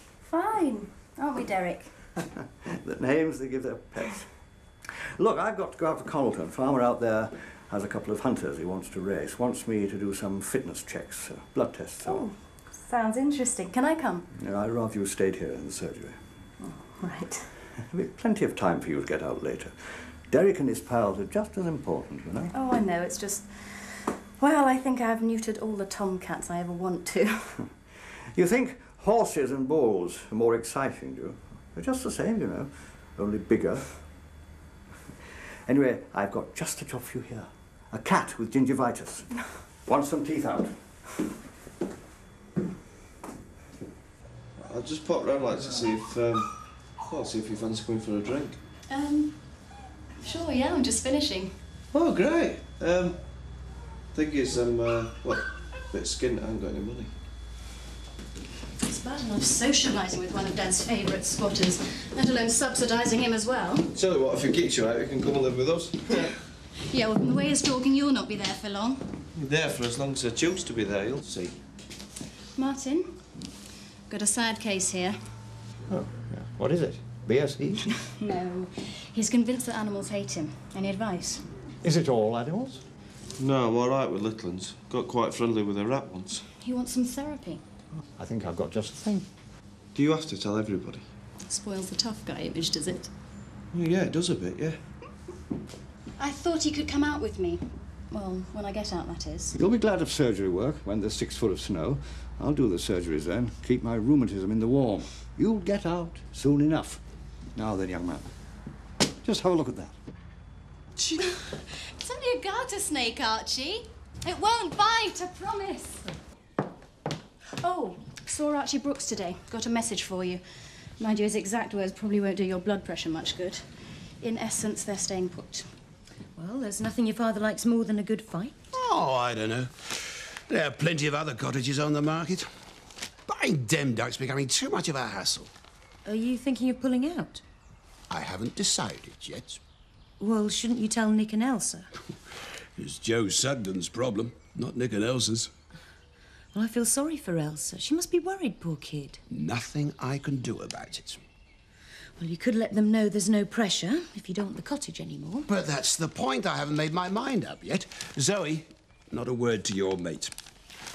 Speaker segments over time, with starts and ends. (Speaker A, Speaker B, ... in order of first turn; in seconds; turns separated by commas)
Speaker A: 0.2-1.9, Speaker B: 2.6-4.3, Speaker B: 5.2-12.3, Speaker A: 12.0-14.3, Speaker B: 14.3-16.2, Speaker A: 16.6-17.5, Speaker B: 17.9-19.8, Speaker B: 20.3-22.5, Speaker A: 22.5-27.6, Speaker B: 28.3-34.0, Speaker B: 35.7-41.2, Speaker C: 44.6-46.5, Speaker C: 47.0-48.6, Speaker A: 48.9-49.4, Speaker A: 50.2-51.5, Speaker C: 51.9-53.2, Speaker C: 54.1-57.1, Speaker A: 58.8-63.9, Speaker C: 63.9-66.3, Speaker A: 66.9-69.1, Speaker C: 69.4-71.6, Speaker A: 72.5-73.1, Speaker A: 74.1-75.2, Speaker B: 75.9-77.8, Speaker A: 78.1-81.5, Speaker B: 81.8-82.8, Speaker C: 83.4-86.4, Speaker A: 86.6-87.6, Speaker B: 88.2-89.2, Speaker C: 90.0-91.0, Speaker A: 91.4-93.1, Speaker C: 93.7-94.8, Speaker A: 96.2-99.5, Speaker B: 99.5-107.0, Speaker B: 107.5-108.2, Speaker B: 109.2-109.9, Speaker A: 111.0-116.1, Speaker A: 117.6-120.4, Speaker A: 121.0-123.6, Speaker A: 124.2-125.7, Speaker D: 126.3-128.5, Speaker E: 128.7-132.5, Speaker E: 133.3-135.5, Speaker D: 136.1-137.4, Speaker E: 138.1-139.6, Speaker D: 140.2-141.9, Speaker E: 142.8-145.5, Speaker D: 146.5-149.2, Speaker E: 149.3-151.2, Speaker D: 152.2-155.5, Speaker E: 155.5-160.3